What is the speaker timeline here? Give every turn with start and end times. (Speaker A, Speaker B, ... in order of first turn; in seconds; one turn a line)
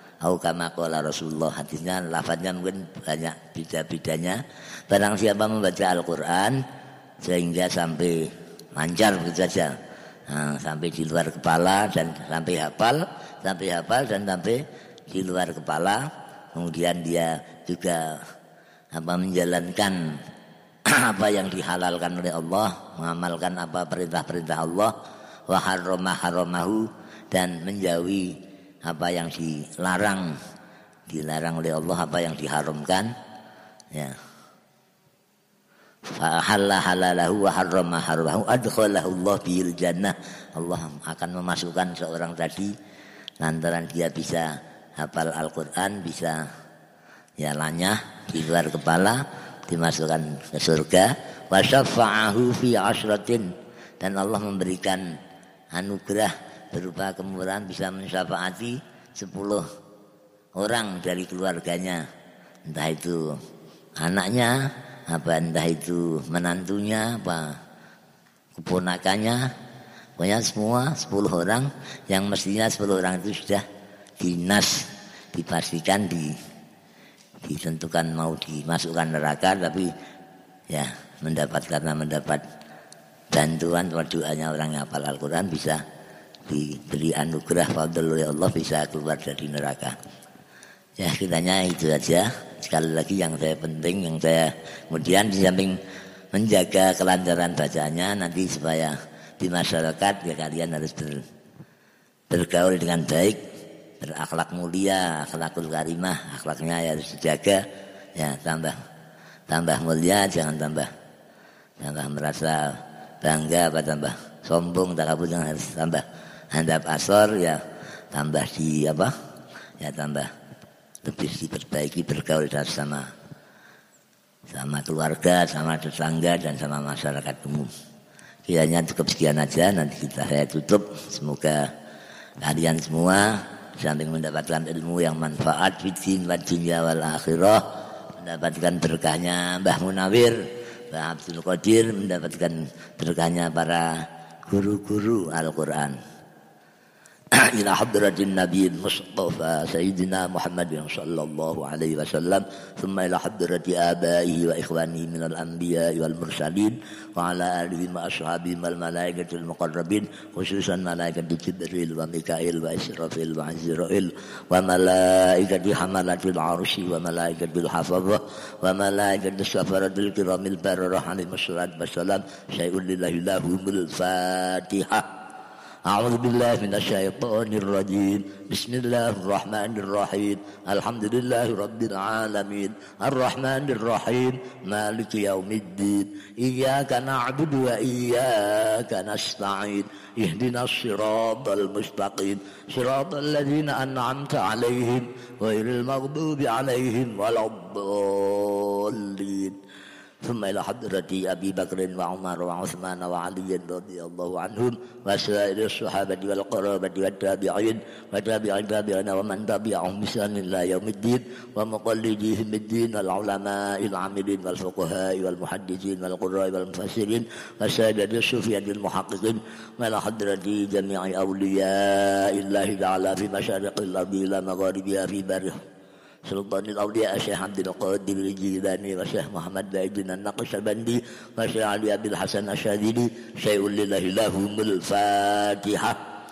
Speaker A: 0.2-6.6
Speaker A: 7.2-8.2
Speaker A: 8.8-9.7
Speaker A: 10.3-16.0
Speaker A: 16.5-18.2
Speaker A: 18.9-20.2
Speaker A: 20.9-24.9
Speaker A: 25.5-30.4
Speaker A: 31.1-33.1
Speaker A: 36.1-42.7
Speaker A: 43.4-46.4
Speaker A: 47.4-53.5
Speaker A: 54.0-55.1
Speaker A: 55.7-59.6
Speaker A: 60.6-62.0
Speaker A: 62.6-63.3
Speaker A: 64.0-67.5
Speaker A: 68.6-69.5
Speaker A: 70.2-73.6
Speaker A: 74.2-76.3
Speaker A: 77.4-79.9
Speaker A: 80.7-82.4
Speaker A: 83.3-85.8
Speaker A: 86.5-89.9
Speaker A: 91.0-95.8
Speaker A: 96.3-101.2
Speaker A: 102.3-103.4
Speaker A: 104.0-107.6
Speaker A: 108.2-108.8
Speaker A: 109.5-110.9
Speaker A: 111.8-117.6
Speaker A: 118.1-119.1
Speaker A: 119.8-120.3
Speaker A: 121.0-123.1
Speaker A: 124.5-127.7
Speaker A: 128.5-131.7
Speaker A: 132.4-137.6
Speaker A: 138.2-140.4
Speaker A: 140.9-146.0
Speaker A: 147.4-175.0
Speaker A: 175.9-199.5
Speaker A: 200.2-225.6
Speaker A: 226.2-236.0